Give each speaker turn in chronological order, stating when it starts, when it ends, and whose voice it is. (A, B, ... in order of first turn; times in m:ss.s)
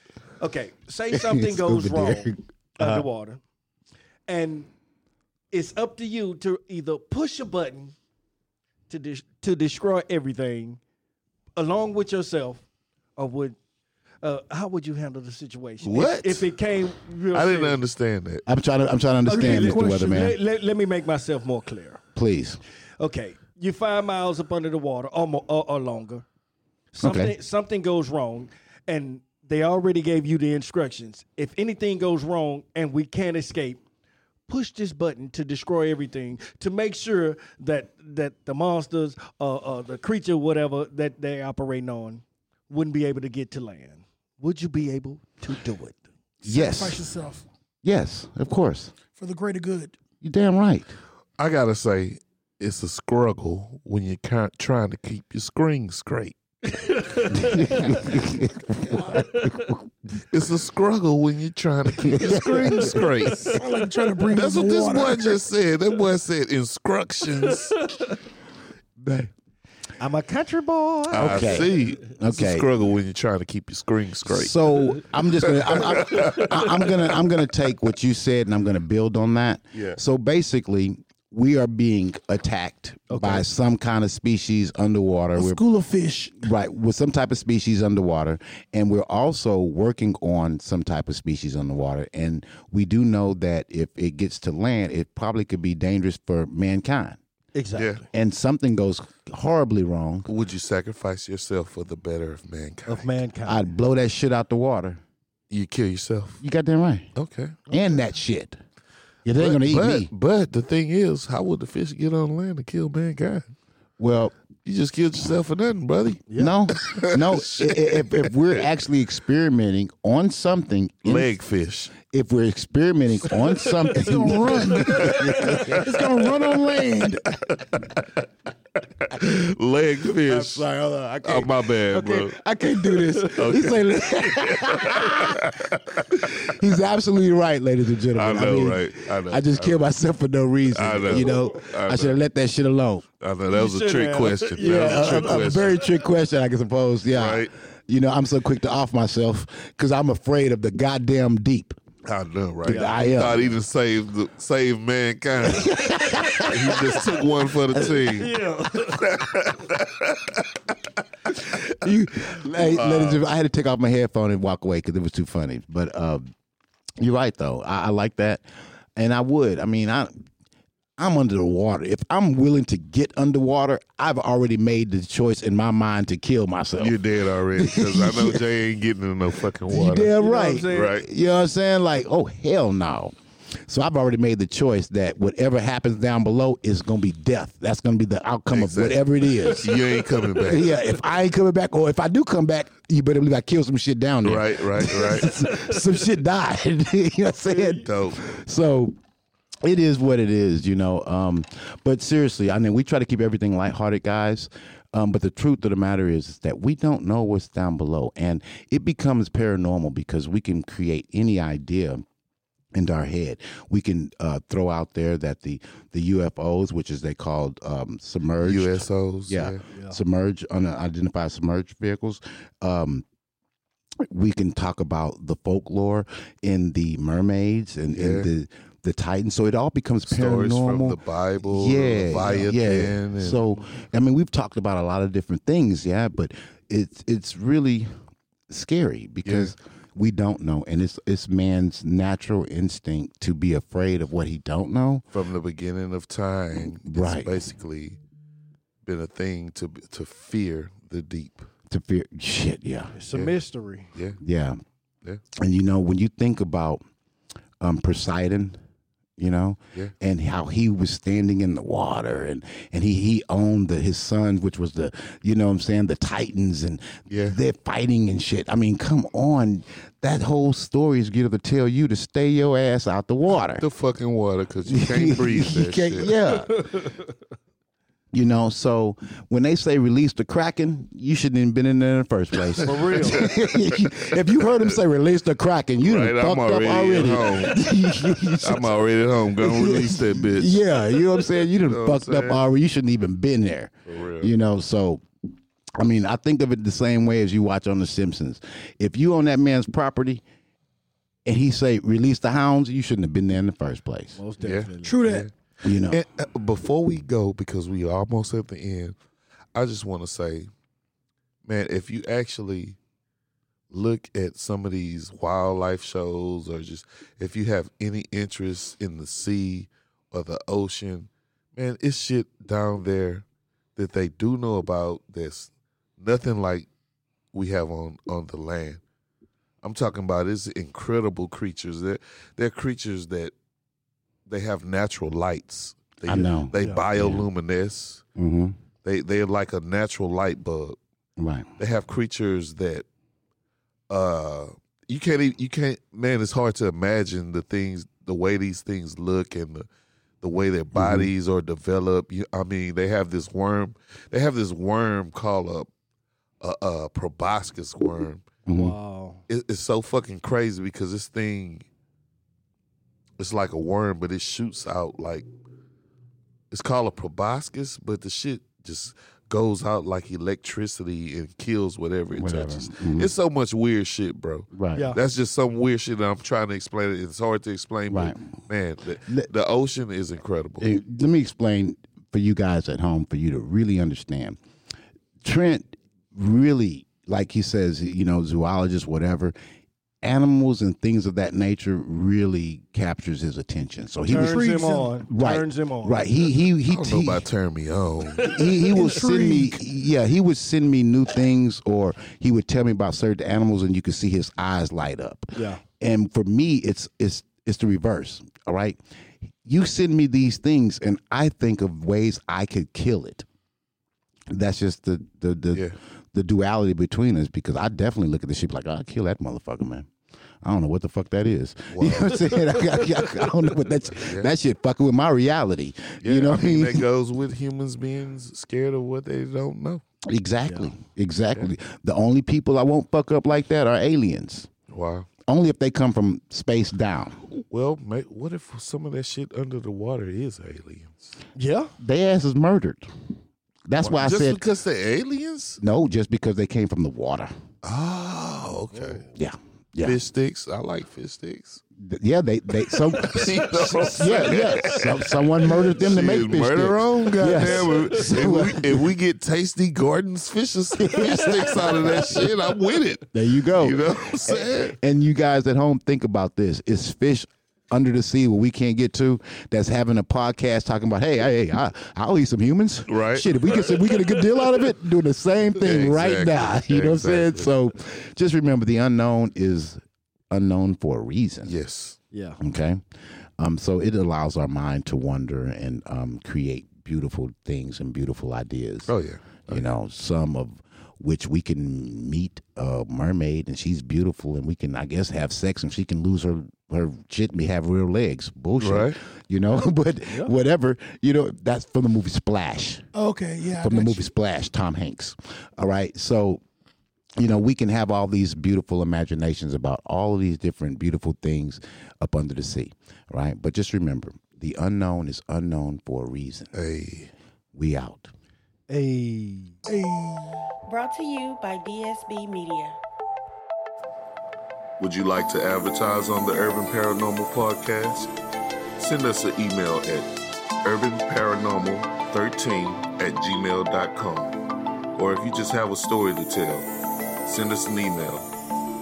0:00.4-0:03.4 A
0:01.1-0:03.1 B
0:04.3-0:04.7 A
0:05.5-0:07.9 A
0:08.9-0:10.8 A
0:11.6-0:12.6 A
0:13.2-0:13.6 A
0:14.2-0:17.8 A
0:15.8-0:16.5 C
0:17.3-0:18.4 C
0:18.4-0:20.4 B
0:19.3-0:22.0 A
0:22.1-0:22.6 B
0:23.0-0:26.2 A
0:26.9-0:33.8 A
0:27.0-0:27.3 B
0:34.5-0:46.0 A
0:46.4-0:47.5 D
0:46.4-0:47.0 B
0:47.8-0:48.9 B
0:49.1-0:49.9 D
0:50.2-0:51.0 B
0:51.4-0:56.4 C
0:56.7-0:58.1 A
0:57.3-0:59.8 B
0:59.2-0:59.4 A
1:00.3-1:03.6 C
1:02.0-1:03.1 B
1:02.8-1:05.4 D
1:04.3-1:07.8 C
1:09.0-1:09.3 B
1:10.0-1:11.7 A
1:11.1-1:16.5 C
1:11.2-1:12.7 B
1:14.3-1:25.6 B
1:19.7-1:20.0 C
1:23.1-1:23.4 A
1:25.3-1:26.5 D
1:26.4-1:37.2 B
1:37.5-1:38.1 A
1:37.8-1:38.0 C
1:38.1-1:40.3 B
1:40.3-1:43.2 C
1:42.9-1:43.7 A
1:43.4-1:45.0 B
1:45.5-1:46.4 C
1:46.4-1:47.1 B
1:47.1-1:47.6 C
1:47.7-1:48.6 B
1:49.2-1:50.1 B
1:49.4-1:53.4 C
1:54.0-1:54.3 B
1:54.6-1:58.6 C
1:56.3-1:56.5 A
1:56.3-2:01.3 B
2:01.0-2:01.9 C
2:02.1-2:07.6 B
2:03.8-2:07.2 D
2:04.8-2:05.8 C
2:09.0-2:10.6 C
2:10.2-2:23.0 B
2:11.2-2:12.4 C
2:13.2-2:16.3 C
2:18.1-2:19.8 C
2:20.7-2:22.2 C
2:23.2-2:25.8 C
2:23.5-2:25.6 A
2:24.6-2:31.8 B
2:27.1-2:27.5 C
2:32.0-2:38.4 C
2:32.6-2:33.5 B
2:32.7-2:33.4 A
2:35.4-2:37.1 B
2:37.7-2:38.2 B
2:38.2-2:39.0 A
2:39.0-2:40.7 C
2:41.4-2:46.2 B
2:42.5-2:43.2 C
2:47.0-2:48.4 B
2:49.0-2:50.1 B
2:51.0-2:58.4 B
2:56.8-3:00.1 C
2:59.7-3:18.9 B
3:00.1-3:00.9 A
3:00.7-3:01.0 C
3:08.5-3:10.8 C
3:14.2-3:15.3 C
3:17.5-3:17.8 A
3:17.8-3:18.2 C
3:19.6-3:32.0 B
3:32.7-3:43.0 B
3:38.4-3:39.6 C
3:39.7-3:40.0 A
3:44.0-3:57.9 B
3:47.9-3:48.3 C
3:50.0-3:53.4 C
3:58.5-4:05.0 B
3:59.2-3:59.5 C
4:05.1-4:08.0 C
4:06.8-4:07.4 B
4:08.8-4:11.5 C
4:11.7-4:12.9 B
4:12.9-4:13.9 A
4:13.9-4:14.2 C
4:14.2-4:14.6 B
4:15.4-4:16.8 B
4:17.6-4:18.6 B
4:19.2-4:33.6 B
4:27.1-4:27.4 C
4:33.4-4:36.2 C
4:34.7-4:36.7 B
4:38.1-4:55.0 B
4:42.5-4:44.8 C
4:42.6-4:43.2 A
4:45.8-4:47.6 C
4:48.4-4:50.6 C
4:51.4-4:52.4 C
4:53.9-4:54.3 C
4:55.8-5:00.2 B
5:01.2-5:04.2 B
5:04.2-5:05.0 A
5:04.4-5:05.3 C
5:04.8-5:05.3 D
5:05.6-5:06.0 B
5:05.8-5:09.0 C
5:09.5-5:10.5 C
5:11.4-5:12.8 C
5:13.7-5:23.2 C
5:23.8-5:26.7 C
5:27.3-5:28.8 C
5:29.6-5:33.3 C
5:34.3-5:38.0 C
5:36.0-5:37.2 B
5:36.5-5:36.8 A
5:38.2-5:38.6 B
5:38.8-5:40.8 C
5:41.2-5:41.5 B
5:41.6-5:42.8 C
5:43.9-5:49.6 C
5:50.2-5:55.7 C
5:50.7-5:51.1 B
5:56.4-5:58.2 C
5:58.4-5:58.8 B
5:58.5-5:59.2 A
5:59.3-6:01.6 C
6:03.2-6:05.3 C
6:06.5-6:20.7 C
6:12.1-6:13.1 B
6:14.5-6:14.9 B
6:17.9-6:18.2 B
6:20.6-6:24.4 B
6:25.2-6:29.3 B
6:30.0-6:34.5 B
6:34.1-6:35.0 D
6:34.1-6:36.1 A
6:35.1-6:37.2 B
6:36.7-6:38.3 C
6:38.2-6:48.8 B
6:38.6-6:39.6 D
6:45.3-6:45.6 A
6:49.4-6:53.2 B
6:54.3-6:59.9 B
7:00.4-7:06.8 B
7:01.7-7:02.2 C
7:03.9-7:04.3 C
7:06.0-7:09.8 C
7:10.0-7:14.5 B
7:10.5-7:10.7 A
7:14.7-7:15.1 C
7:15.2-7:17.2 B
7:17.3-7:21.1 C
7:21.4-7:21.7 A
7:21.8-7:22.8 B
7:23.6-7:24.4 B
7:23.8-7:25.6 C
7:25.6-7:27.3 B
7:27.6-7:29.0 C
7:28.7-7:29.1 A
7:29.1-7:30.0 B
7:29.8-7:31.6 C
7:31.8-7:38.9 B
7:32.9-7:44.8 C
7:40.8-7:42.3 B
7:43.1-8:01.5 B
7:52.9-7:54.3 C
7:55.6-7:57.5 C
8:01.4-8:02.0 C
8:02.1-8:02.4 A
8:02.4-8:02.8 B
8:03.4-8:08.9 B
8:08.8-8:09.6 C
8:09.5-8:22.9 B
8:18.6-8:18.9 C
8:22.9-8:24.1 D
8:23.6-8:26.4 B
8:27.2-8:36.5 B
8:36.5-8:37.1 C
8:37.5-8:38.1 B
8:38.7-8:39.6 A
8:39.7-8:40.2 D
8:40.6-8:42.8 E
8:44.8-8:48.1 C
8:48.8-8:54.4 C
8:54.9-8:56.7 C
8:57.2-8:58.3 C